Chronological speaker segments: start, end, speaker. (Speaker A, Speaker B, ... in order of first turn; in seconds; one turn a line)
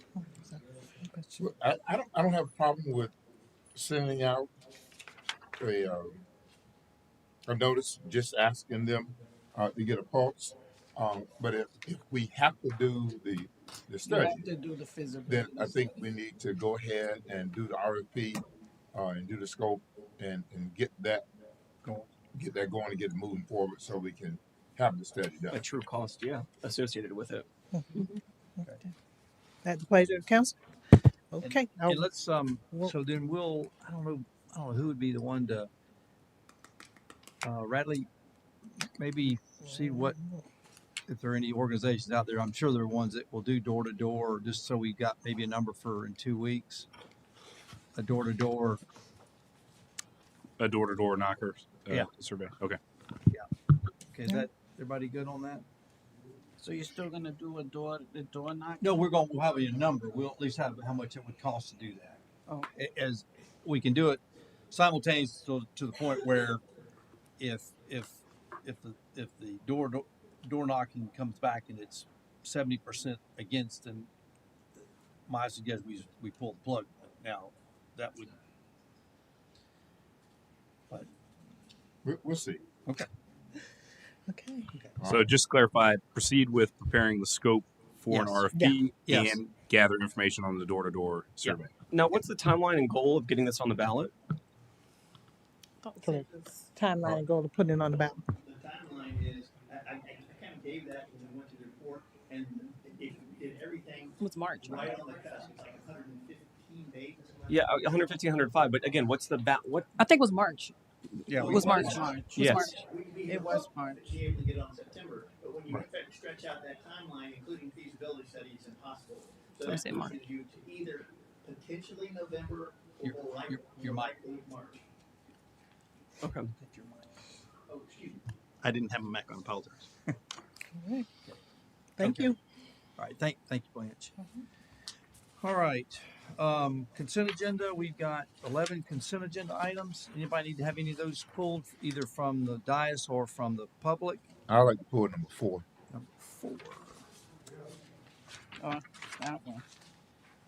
Speaker A: 0.2-1.5
Speaker B: 1.4-3.1
Speaker B: 3.8-4.5
Speaker B: 5.6-6.2
Speaker B: 7.5-14.5
Speaker C: 14.1-16.1
Speaker B: 15.3-21.2
Speaker B: 22.3-25.6
Speaker D: 25.5-27.5
Speaker A: 28.6-28.9
Speaker A: 29.6-30.6
Speaker A: 31.3-32.0
Speaker E: 31.4-35.7
Speaker E: 37.4-38.1
Speaker E: 38.8-40.2
Speaker A: 39.8-40.4
Speaker E: 41.1-46.9
Speaker E: 48.0-48.8
Speaker F: 50.6-52.8
Speaker E: 54.1-55.6
Speaker C: 56.6-58.8
Speaker E: 58.8-62.2
Speaker E: 62.7-66.6
Speaker E: 67.4-74.1
Speaker E: 75.3-78.4
Speaker B: 82.0-82.6
Speaker A: 84.3-84.7
Speaker B: 85.0-85.3
Speaker F: 85.0-91.7
Speaker E: 88.1-88.5
Speaker A: 88.5-88.8
Speaker E: 89.1-89.4
Speaker D: 91.4-94.1
Speaker A: 95.9-98.2
Speaker G: 98.4-108.5
Speaker H: 104.2-105.0
Speaker D: 107.5-109.9
Speaker H: 110.0-110.7
Speaker H: 111.3-112.7
Speaker E: 111.3-112.4
Speaker G: 111.4-124.8
Speaker C: 111.9-112.7
Speaker D: 112.3-112.7
Speaker C: 113.3-114.0
Speaker H: 119.7-120.2
Speaker E: 123.0-124.1
Speaker D: 126.2-126.5
Speaker E: 126.6-127.1
Speaker G: 127.7-129.9
Speaker A: 130.7-131.1
Speaker A: 132.0-132.4
Speaker E: 132.0-132.3
Speaker E: 133.0-134.1
Speaker E: 135.4-144.3
Speaker B: 144.5-145.7
Speaker E: 145.9-146.9
Speaker C: 148.6-149.6